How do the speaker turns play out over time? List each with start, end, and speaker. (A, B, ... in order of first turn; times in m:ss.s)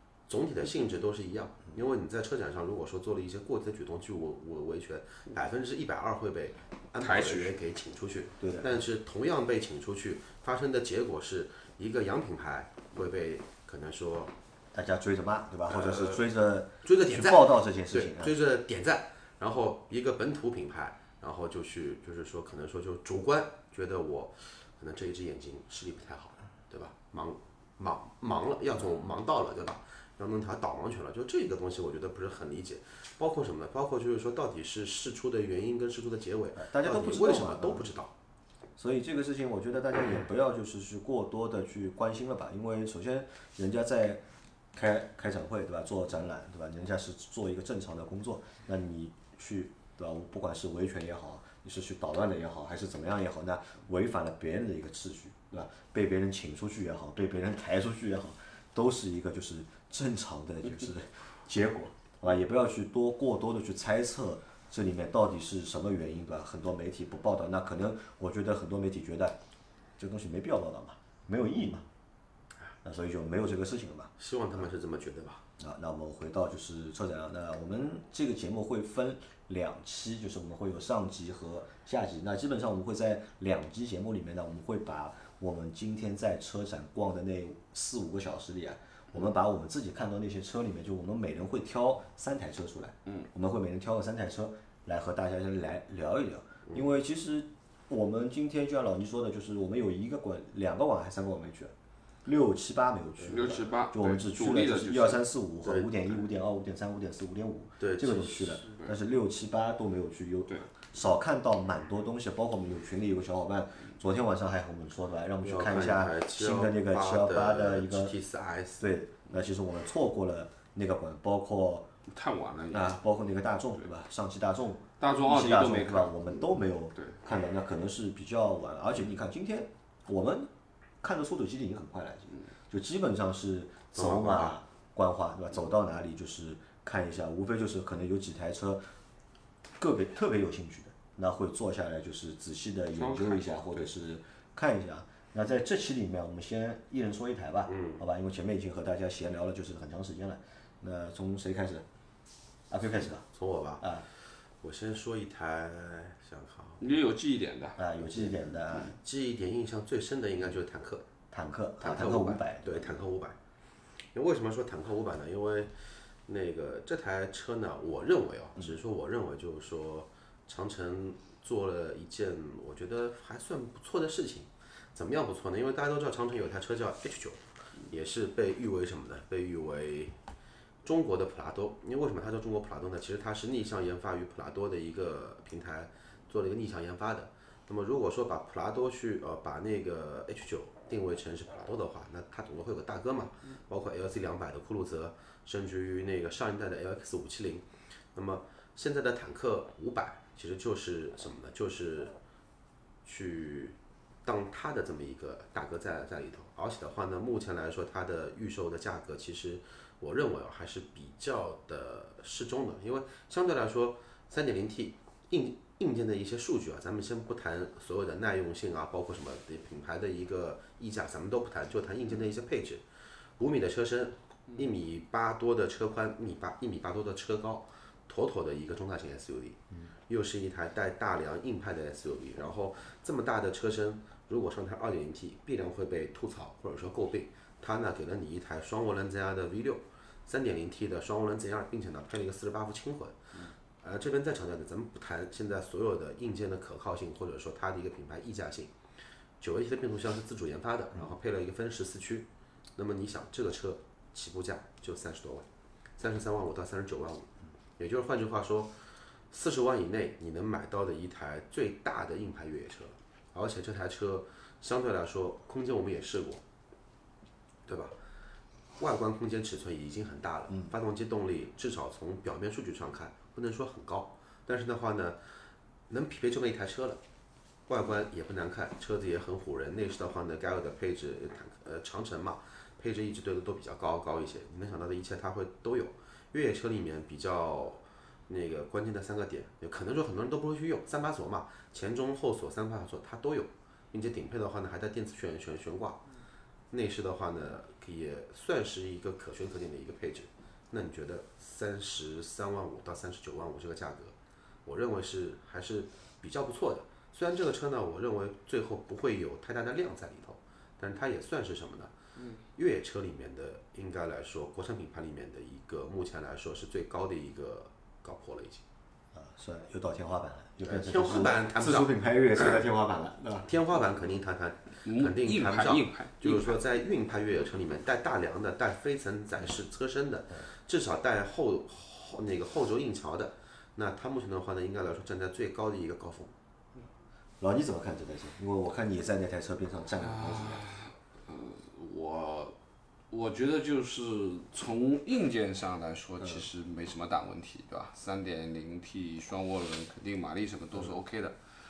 0:00.3-0:14.3 A
0:07.0-0:07.6 B
0:08.4-0:08.8 C
0:14.7-0:18.3 C
0:15.7-0:16.2 A
0:16.8-0:38.1 A
0:36.6-0:37.9 C
0:38.8-0:44.2 C
0:44.8-1:09.4 C
1:10.0-1:11.8 C
1:12.8-1:14.1 C
1:14.2-1:15.4 A
1:15.6-1:41.7 C
1:42.2-1:58.1 C
1:43.2-1:45.2 B
1:45.6-1:46.0 A
1:47.8-1:48.6 A
1:55.4-1:58.8 A
1:58.8-2:01.9 C
2:02.1-2:03.0 B
2:02.7-2:10.5 C
2:05.0-2:06.3 B
2:11.0-2:18.8 C
2:13.9-2:14.6 A
2:19.8-2:31.8 C
2:23.0-2:23.9 B
2:27.7-2:28.0 A
2:32.7-2:33.2 C
2:33.3-2:33.8 A
2:34.6-2:36.9 A
2:36.8-2:37.8 B
2:37.8-2:39.0 C
2:38.1-2:41.0 A
2:41.3-2:43.0 C
2:41.8-2:43.4 A
2:44.2-2:45.7 A
2:46.3-3:00.2 A
3:00.8-3:22.2 A
3:23.0-3:42.8 A
3:43.4-4:03.2 A
4:03.8-4:08.7 A
4:09.4-4:15.5 A
4:16.0-4:18.7 A
4:19.3-4:26.4 A
4:27.7-4:28.0 A
4:28.8-4:35.2 A
4:35.9-4:37.0 A
4:37.7-4:56.0 A
4:56.7-5:04.2 A
5:04.7-5:11.9 A
5:12.5-5:18.6 A
5:19.1-5:23.5 C
5:20.6-5:22.0 A
5:23.5-5:36.3 A
5:24.8-5:26.6 B
5:37.4-5:40.6 C
5:40.0-5:42.6 B
5:43.1-5:51.4 B